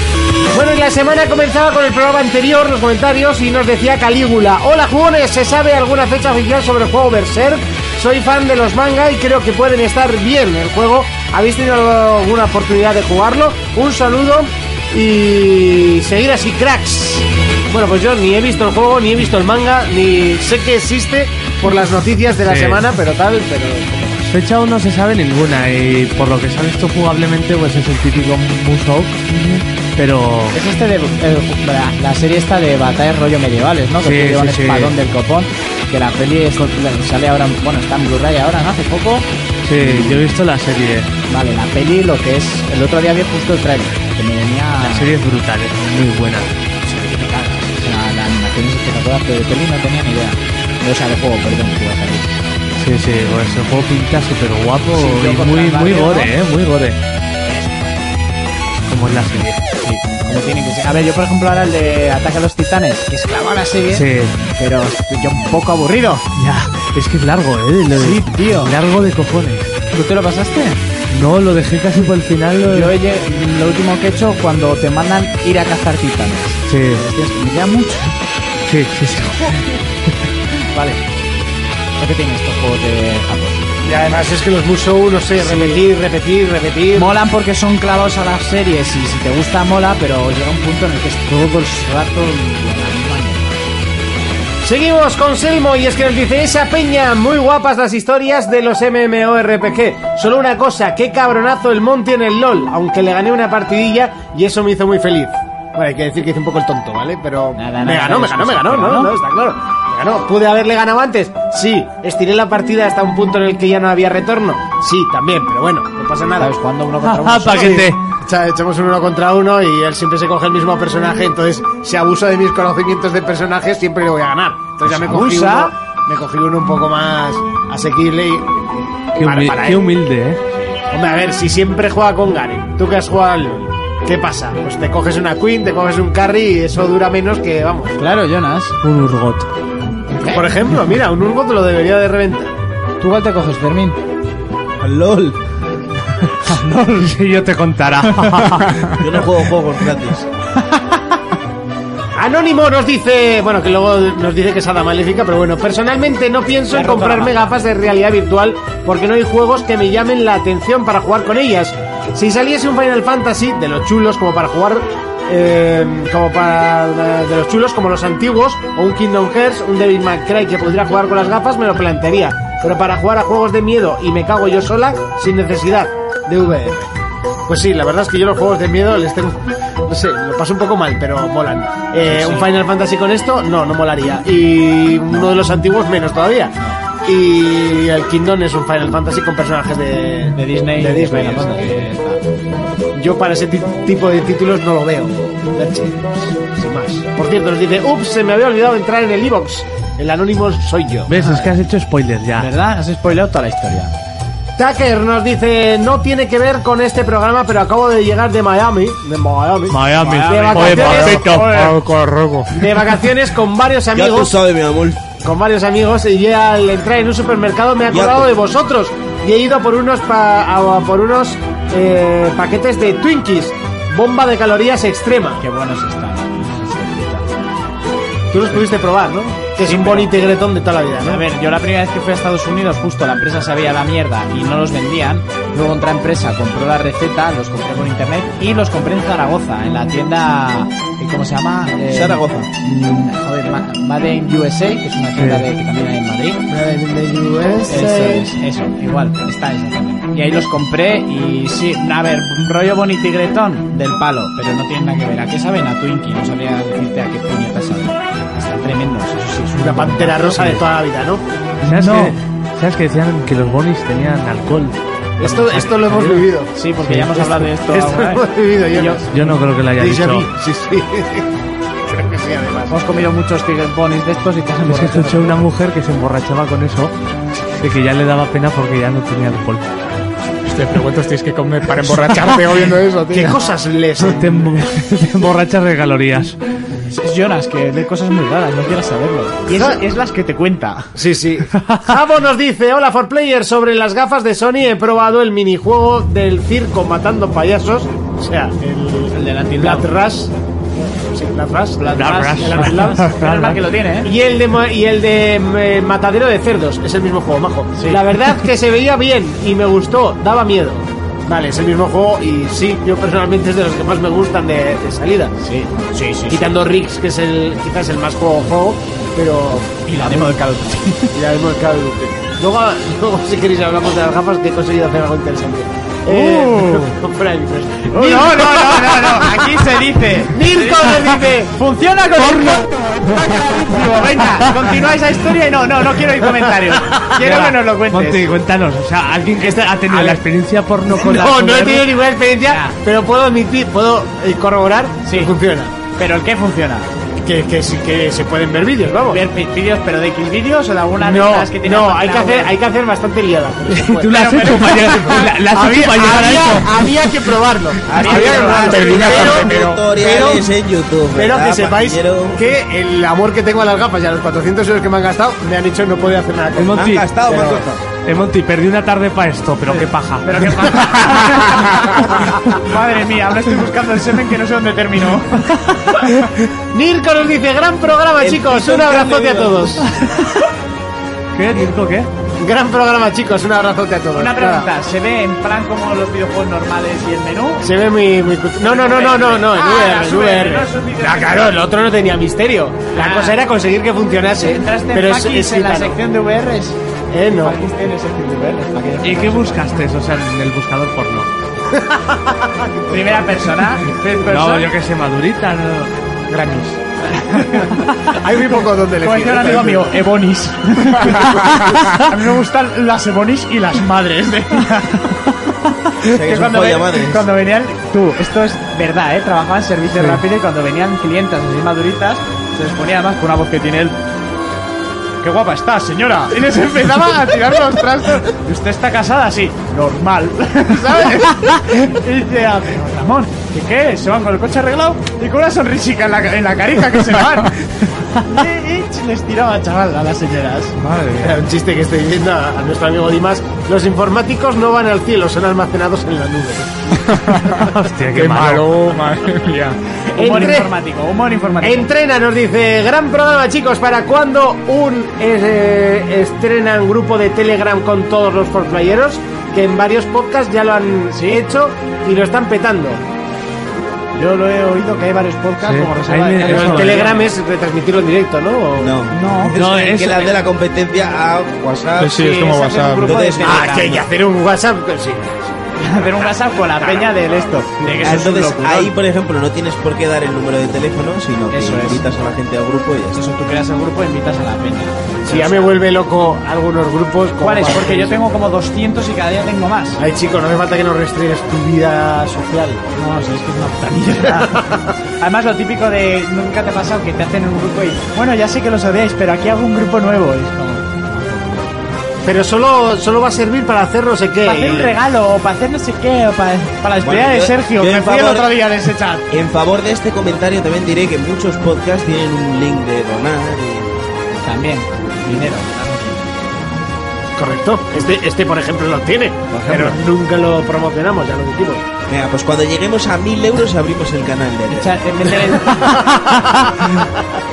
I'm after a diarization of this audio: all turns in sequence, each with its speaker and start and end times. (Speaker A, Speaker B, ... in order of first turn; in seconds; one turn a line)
Speaker A: 0.5-24.3
Speaker B: 22.4-22.8
Speaker B: 24.3-29.2
Speaker C: 29.3-29.6
Speaker B: 30.0-30.6
Speaker C: 30.5-39.3
Speaker B: 34.0-34.9
Speaker B: 39.6-41.1
Speaker C: 39.8-40.2
Speaker C: 41.3-45.1
Speaker B: 44.8-46.5
Speaker C: 46.8-52.5
Speaker B: 52.8-57.0
Speaker C: 54.9-56.3
Speaker C: 57.5-57.9
Speaker B: 58.9-59.6
Speaker C: 59.8-66.3
Speaker B: 63.9-64.4
Speaker B: 66.4-69.7
Speaker C: 67.9-68.7
Speaker C: 69.9-70.8
Speaker B: 71.1-72.9
Speaker C: 72.7-78.2
Speaker B: 76.7-77.0
Speaker B: 78.7-79.6
Speaker C: 79.2-79.6
Speaker C: 80.7-81.0
Speaker C: 82.0-83.8
Speaker A: 83.8-87.1
Speaker C: 85.4-85.8
Speaker C: 87.0-93.6
Speaker A: 94.6-116.5
Speaker C: 107.6-109.1
Speaker C: 116.4-117.9
Speaker B: 117.0-118.0
Speaker A: 117.5-129.9
Speaker C: 124.8-125.7
Speaker B: 129.2-130.4
Speaker A: 130.9-138.0
Speaker C: 138.0-138.8
Speaker B: 138.8-139.5
Speaker C: 140.2-140.5
Speaker A: 140.3-142.5
Speaker C: 143.0-144.0
Speaker D: 144.8-145.4
Speaker C: 146.5-147.1
Speaker B: 146.5-148.8
Speaker D: 148.9-150.3
Speaker A: 152.2-176.9
Speaker C: 156.7-157.5
Speaker A: 177.5-191.8
Speaker C: 182.1-182.5
Speaker C: 190.3-192.2
Speaker A: 192.9-201.1
Speaker B: 201.1-202.5
Speaker C: 201.2-201.5
Speaker C: 202.4-203.9
Speaker A: 204.6-211.5
Speaker B: 209.7-211.7
Speaker C: 210.0-211.8
Speaker E: 210.8-212.5
Speaker A: 212.5-214.4
Speaker D: 213.9-215.0
Speaker A: 215.2-225.4
Speaker D: 217.9-218.3
Speaker C: 225.4-227.3
Speaker A: 228.3-231.2
Speaker C: 229.6-230.1
Speaker C: 231.0-246.4
Speaker D: 241.9-242.5
Speaker B: 245.2-245.4
Speaker A: 246.5-248.3
Speaker C: 247.7-260.6
Speaker A: 259.6-261.2
Speaker B: 261.6-266.3
Speaker C: 261.6-262.2
Speaker A: 265.2-266.5
Speaker C: 266.6-269.1
Speaker B: 266.9-267.1
Speaker A: 267.1-271.3
Speaker B: 269.1-270.3
Speaker A: 271.9-272.8
Speaker C: 272.7-275.4
Speaker B: 274.7-276.9
Speaker B: 277.6-279.6
Speaker E: 280.4-283.3
Speaker A: 283.1-284.5
Speaker B: 284.0-286.4
Speaker C: 286.8-291.0
Speaker A: 289.5-289.8
Speaker A: 291.0-303.1
Speaker C: 299.1-299.9
Speaker C: 301.8-304.1
Speaker B: 301.9-303.6
Speaker A: 304.0-315.3
Speaker C: 307.8-308.0
Speaker C: 315.4-316.6
Speaker A: 316.3-320.4
Speaker C: 319.9-321.1
Speaker A: 321.1-329.6
Speaker C: 326.1-326.9
Speaker C: 327.9-338.3
Speaker A: 330.3-331.5
Speaker B: 337.2-341.9
Speaker A: 339.9-340.2
Speaker A: 340.9-345.7
Speaker C: 342.4-342.8
Speaker C: 345.1-345.3
Speaker C: 346.0-346.9
Speaker A: 347.2-349.2
Speaker C: 349.1-352.5
Speaker A: 351.0-360.5
Speaker B: 353.7-356.8
Speaker C: 354.1-355.2
Speaker D: 357.9-362.4
Speaker C: 358.0-358.7
Speaker E: 358.0-359.9
Speaker A: 361.1-367.8
Speaker B: 366.6-367.1
Speaker D: 366.8-367.7
Speaker B: 368.1-371.0
Speaker C: 369.7-376.1
Speaker A: 370.6-371.5
Speaker A: 376.7-379.9
Speaker D: 378.2-379.8
Speaker B: 381.4-382.1
Speaker A: 382.4-384.7
Speaker C: 384.1-387.7
Speaker A: 387.6-396.0
Speaker C: 388.6-391.5
Speaker C: 392.9-393.4
Speaker C: 394.4-396.8
Speaker A: 397.1-397.6
Speaker C: 397.4-399.7
Speaker B: 399.0-401.3
Speaker A: 401.7-403.4
Speaker C: 402.9-404.7
Speaker B: 404.2-405.9
Speaker C: 406.3-424.0
Speaker A: 408.1-409.9
Speaker D: 416.0-417.3
Speaker C: 425.2-440.8
Speaker A: 430.8-431.3
Speaker B: 440.8-441.4
Speaker A: 441.2-447.0
Speaker E: 447.1-449.8
Speaker B: 447.4-449.0
Speaker C: 450.1-451.9
Speaker A: 450.2-450.7
Speaker A: 451.6-463.0
Speaker C: 461.1-461.4
Speaker C: 464.1-467.3
Speaker B: 465.6-467.2
Speaker A: 466.4-469.0
Speaker D: 468.8-474.1
Speaker C: 469.1-469.6
Speaker B: 469.6-470.4
Speaker E: 472.0-473.2
Speaker C: 472.5-474.0
Speaker A: 473.4-477.2
Speaker C: 475.8-478.9
Speaker D: 478.0-483.2
Speaker C: 481.5-482.1
Speaker C: 483.1-485.8
Speaker A: 485.3-488.2
Speaker C: 487.4-490.0
Speaker A: 490.0-492.8
Speaker C: 492.9-501.7
Speaker A: 494.5-494.8
Speaker A: 502.2-504.9
Speaker C: 504.4-509.3
Speaker D: 507.0-508.5
Speaker D: 509.3-514.0
Speaker C: 514.4-516.8
Speaker A: 517.4-521.9
Speaker D: 519.5-520.0
Speaker D: 522.1-525.3
Speaker C: 524.7-526.5
Speaker A: 525.7-527.1